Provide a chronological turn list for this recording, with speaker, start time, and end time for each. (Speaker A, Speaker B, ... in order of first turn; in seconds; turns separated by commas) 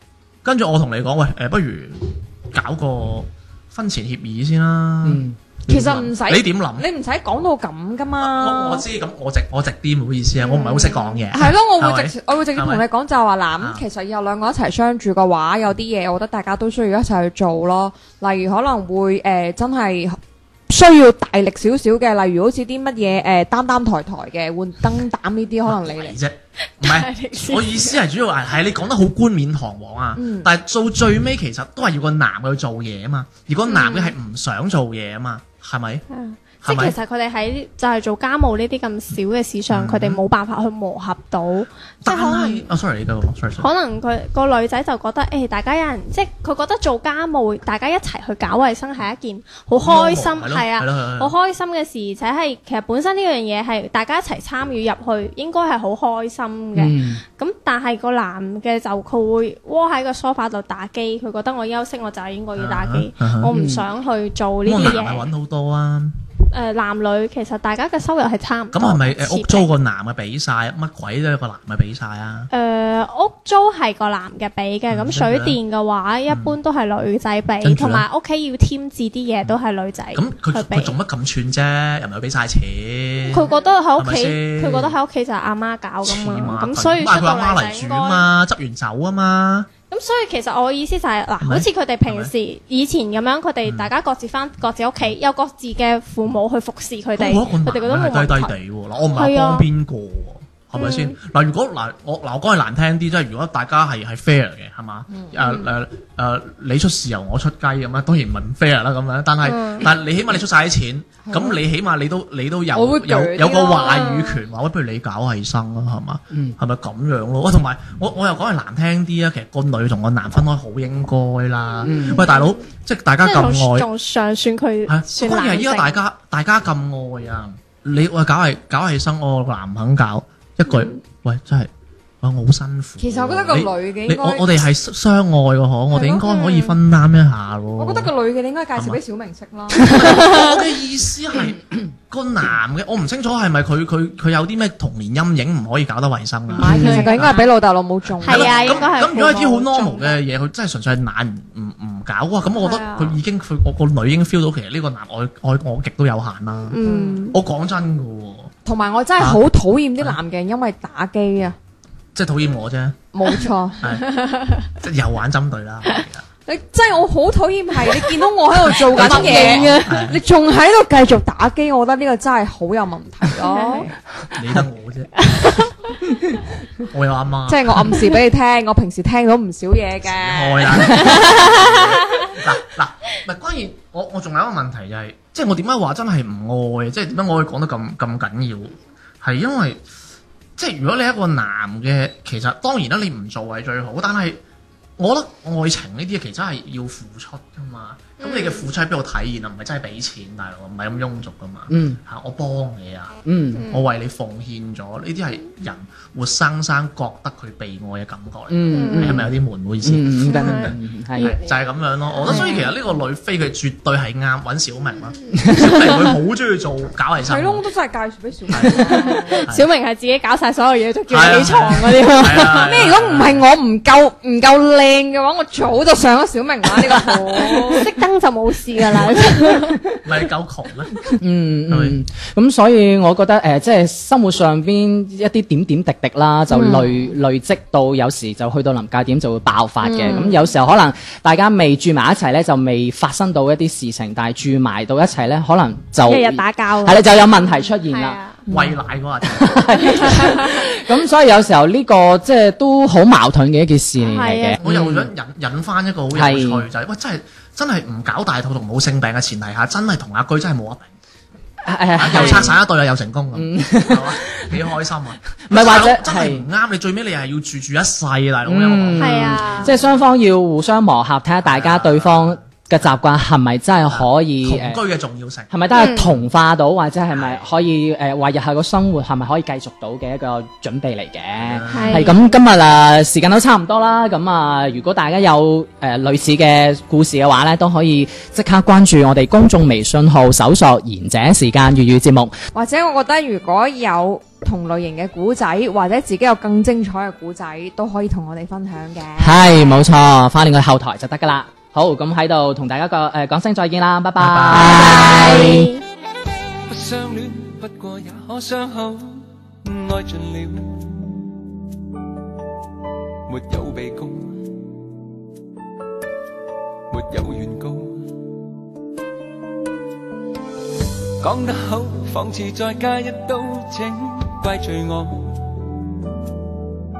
Speaker A: 0.4-6.9, Speaker B: 5.0-5.3, Speaker C: 5.7-8.8, Speaker A: 8.2-12.8, Speaker D: 10.4-11.2, Speaker C: 11.3-20.2, Speaker A: 13.6-13.8, Speaker C: 20.7-26.2, Speaker A: 25.6-36.0, Speaker D: 26.8-28.0, Speaker C: 30.1-30.5, Speaker D: 33.7-34.1, Speaker D: 36.1-42.7, Speaker A: 36.6-37.0, Speaker A: 39.7-40.2, Speaker A: 42.0-43.7, Speaker D: 43.6-65.3, Speaker A: 49.8-51.3, Speaker B: 56.8-57.2, Speaker A: 62.5-63.5, Speaker B: 63.5-63.8, Speaker A: 64.6-66.2, Speaker D: 66.5-69.7, Speaker A: 68.7-72.5, Speaker D: 72.5-80.9, Speaker A: 74.9-75.6, Speaker A: 76.3-76.6, Speaker A: 77.6-78.0, Speaker A: 80.1-84.9, Speaker D: 83.3-88.2, Speaker A: 86.0-89.7, Speaker D: 89.9-98.5, Speaker A: 91.4-92.3, Speaker A: 93.6-93.9, Speaker A: 97.2-123.9, Speaker D: 99.1-99.7, Speaker D: 100.7-101.1, Speaker C: 105.1-105.4, Speaker D: 109.4-109.9, Speaker C: 111.2-111.6, Speaker C: 112.7-114.1, Speaker D: 113.8-114.4, Speaker B: 116.3-116.6, Speaker B: 121.8-122.2, Speaker D: 122.1-122.6, Speaker D: 123.2-125.9, Speaker A: 124.9-131.7, Speaker A: 132.2-138.1, Speaker C: 133.0-134.5, Speaker D: 136.2-136.8, Speaker C: 137.8-140.2, Speaker A: 139.9-147.4, Speaker D: 139.9-140.6, Speaker D: 146.5-147.5, Speaker C: 146.6-148.9, Speaker B: 146.7-147.0, Speaker D: 148.2-150.2, Speaker A: 148.2-156.8, Speaker D: 152.6-153.2, Speaker D: 156.7-157.4, Speaker C: 156.8-157.2, Speaker A: 157.3-158.5, Speaker C: 158.6-161.6, Speaker A: 162.1-163.0, Speaker C: 163.1-164.0, Speaker A: 163.8-164.2, Speaker D: 164.1-164.7, Speaker A: 164.7-166.2, Speaker C: 166.4-173.9, Speaker A: 168.7-170.2, Speaker D: 168.9-169.9, Speaker D: 173.4-173.9, Speaker A: 174.3-175.2, Speaker D: 175.3-175.6, Speaker A: 176.8-178.0, Speaker C: 177.5-181.5, Speaker A: 180.0-189.8, Speaker D: 180.9-182.3, Speaker A: 190.6-194.4, Speaker A: 195.0-217.6, Speaker D: 198.2-198.7, Speaker B: 201.7-202.0, Speaker B: 203.2-203.6, Speaker D: 203.6-203.8, Speaker B: 208.5-209.3, Speaker D: 208.7-209.2, Speaker B: 209.8-211.3, Speaker D: 210.2-211.4, Speaker D: 212.2-212.7, Speaker B: 215.3-215.6, Speaker C: 217.2-219.4, Speaker A: 218.5-219.7, Speaker D: 218.9-222.9, Speaker A: 221.1-223.4, Speaker C: 222.4-227.9, Speaker D: 227.3-229.8, Speaker A: 229.9-230.9, Speaker B: 231.2-255.1, Speaker A: 231.7-232.0, Speaker C: 236.5-237.2, Speaker C: 239.8-240.4, Speaker D: 246.1-248.4, Speaker A: 248.5-250.0, Speaker D: 250.0-250.6, Speaker D: 254.0-254.6, Speaker A: 254.6-260.9, Speaker B: 256.1-256.6, Speaker B: 261.6-262.6, Speaker A: 261.9-269.7, Speaker D: 262.1-262.5, Speaker B: 263.3-264.5, Speaker B: 265.4-266.4, Speaker B: 268.4-274.8, Speaker D: 269.0-269.7, Speaker A: 271.4-272.4, Speaker A: 273.9-276.2, Speaker B: 275.5-292.3, Speaker D: 275.7-276.0, Speaker A: 277.1-277.5, Speaker A: 281.4-282.2, Speaker D: 281.7-282.2, Speaker C: 292.5-299.8, Speaker B: 299.2-305.7, Speaker A: 304.2-305.2, Speaker D: 304.5-305.8, Speaker E: 306.7-310.9, Speaker E: 313.2-314.4, Speaker E: 316.9-318.1, Speaker E: 321.2-325.5